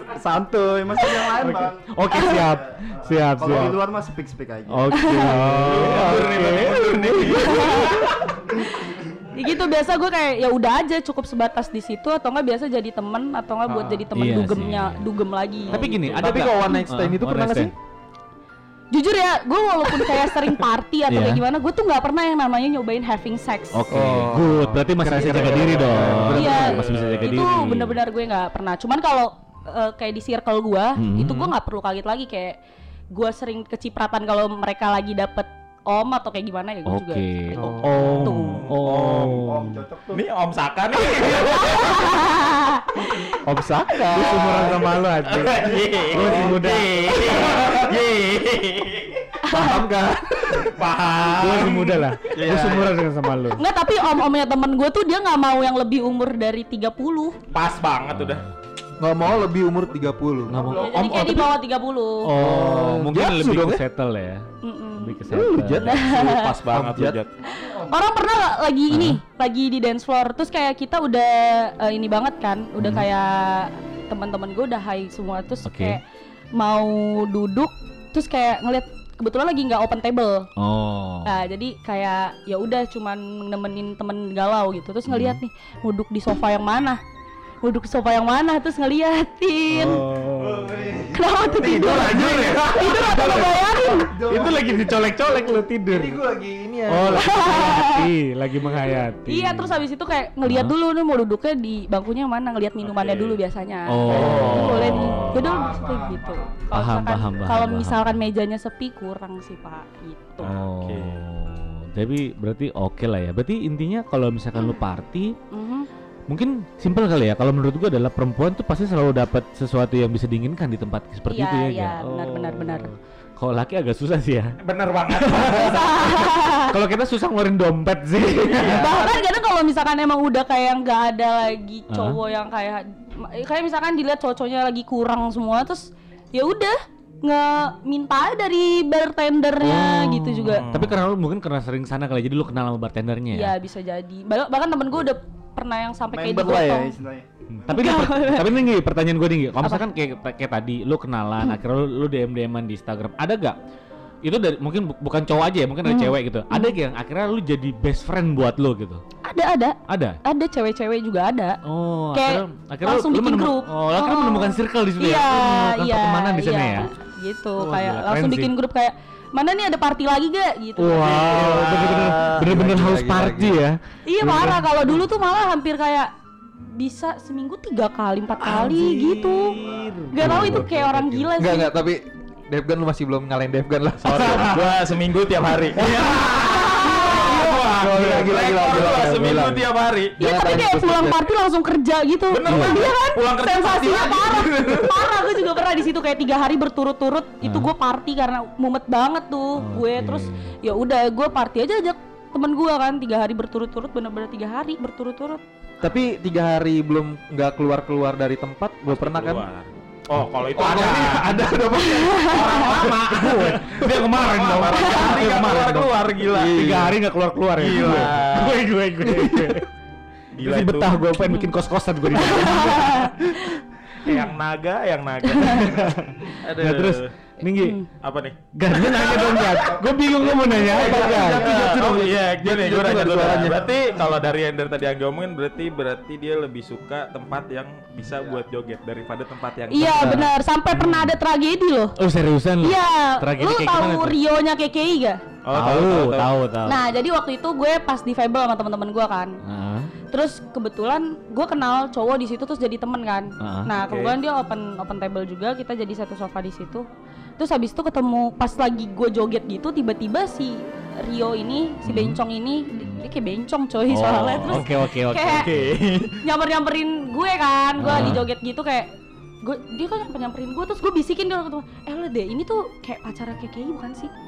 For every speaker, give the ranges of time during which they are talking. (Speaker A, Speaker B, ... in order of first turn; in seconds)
Speaker A: 0.1-5.1, 8.7-9.5, 39.3-40.2, 67.6-67.9, 105.5-106.5, 146.1-147.3, 229.7-231.8
Speaker B: 1.4-3.8, 4.7-8.0, 14.2-15.0, 15.7-17.7, 21.1-21.4, 23.7-28.0, 31.0-31.5, 36.9-39.8, 44.1-47.8, 51.3-53.6, 58.1-58.5, 60.5-61.6, 62.2-64.5, 65.0-66.0, 68.9-69.2, 72.8-73.0, 75.7-76.0, 80.6-81.4, 85.1-85.4, 89.7-90.9, 91.5-96.2, 96.9-99.8, 100.5-100.7, 103.9-105.6, 106.7-108.2, 110.4-115.3, 116.3-124.6, 126.6-128.9, 131.9-132.2, 139.6-143.5, 147.6-153.6, 154.2-159.0, 159.9-160.2, 161.7-166.9, 167.6-168.5, 170.8-175.0, 178.4-181.4, 184.3-184.6, 185.9-186.2, 192.5-192.9, 197.4-197.7, 199.6-200.6, 212.7-215.9, 216.5-219.7, 220.4-223.5, 225.4-227.8, 228.5-231.5, 240.7-241.2, 242.0-244.2, 245.5-246.8, 249.4-249.9, 253.4-253.7, 261.8-262.2, 263.9-265.7, 267.8-268.3
Speaker C: 2.1-2.4, 4.9-5.4, 7.3-15.9, 18.9-23.9, 26.4-32.6, 33.1-38.7, 41.4-43.3, 49.4-49.8, 50.4-50.6, 53.5-57.4, 60.6-62.3, 64.6-66.5, 67.5-76.0, 76.5-80.5, 81.2-87.0, 87.6-90.0, 91.1-94.2, 97.2-98.1, 99.2-110.5, 115.5-115.9, 121.3-122.9, 125.4-126.8, 128.6-140.7, 143.3-146.9, 147.7-148.5, 155.8-156.8, 159.2-161.6, 162.1-171.3, 174.1-176.1, 176.7-181.7, 186.0-187.6, 190.2-205.4, 211.8-212.7, 221.2-221.5, 222.1-224.1, 225.3-225.7, 227.6-227.8, 239.7-242.0, 242.6-245.2, 246.7-249.4, 250.1-256.9, 257.4-265.5, 266.2-274.1
Speaker D: 5.2-6.4, 13.7-14.1, 15.8-17.7, 23.9-27.1, 37.6-38.2, 43.4-45.0, 46.2-46.6, 47.2-47.9, 49.5-50.7, 52.3-53.0, 59.0-60.7, 62.3-63.8, 65.5-67.2, 90.4-91.2, 91.9-92.6, 94.2-94.5, 95.8-97.8, 128.6-128.9, 171.1-173.6, 181.4-184.6, 185.8-189.7, 190.2-191.2, 205.8-209.4, 210.6-212.9, 214.5-215.6, 216.2-217.0, 230.6-233.6, 240.0-240.3
Speaker E: 5.6-8.2, 15.7-16.2, 25.3-27.5, 38.4-39.4, 40.1-42.0, 45.2-49.4, 50.6-52.1, 57.5-58.4, 65.9-67.3, 91.5-93.4, 102.8-103.4, 104.1-105.7, 110.4-111.2, 124.6-126.2, 128.5-128.8, 140.7-141.0, 171.0-172.4, 184.0-190.2, 192.3-195.1, 208.9-211.4, 212.2-216.7, 217.6-218.7, 220.4-221.0, 224.0-227.1, 228.0-229.6, 230.9-240.3, 245.4-246.3, 253.8-254.2, 265.3-266.2